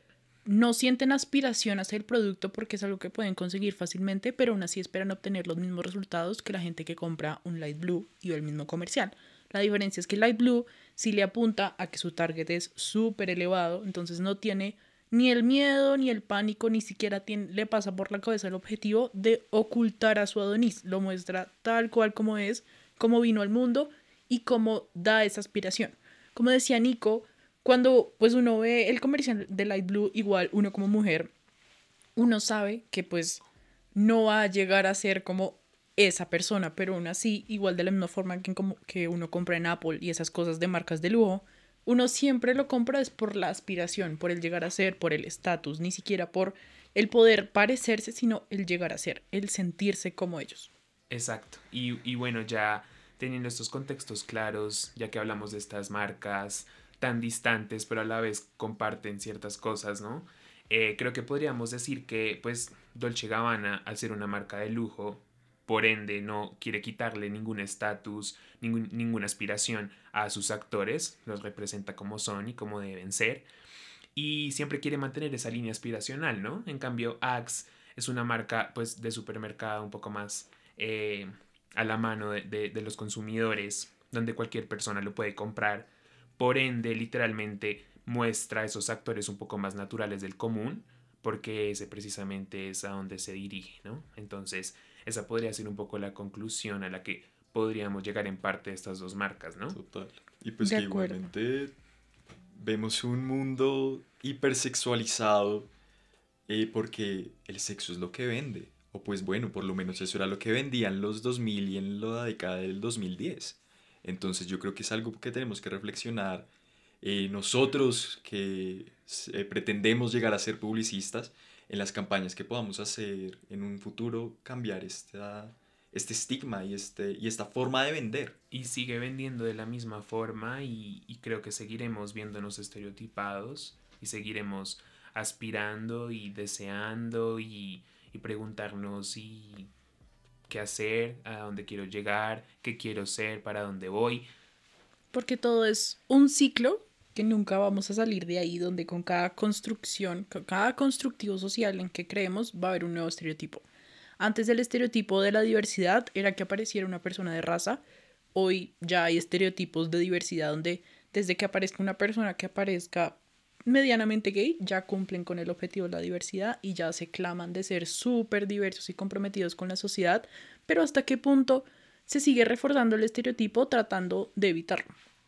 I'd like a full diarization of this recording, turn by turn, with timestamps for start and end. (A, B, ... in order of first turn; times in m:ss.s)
0:00.5-0:31.3 A
0:32.2-0:33.4 A
0:34.0-0:50.7 A
0:51.1-1:13.5 B
1:14.2-1:39.8 B
1:39.7-1:41.7 C
1:40.6-1:41.3 A
1:42.6-1:45.7 C
1:46.5-1:56.5 C
1:57.0-2:08.4 C
2:08.5-2:19.7 B
2:20.5-2:24.3 B
2:25.1-2:33.6 A
2:34.2-2:37.8 A
2:38.4-2:55.0 A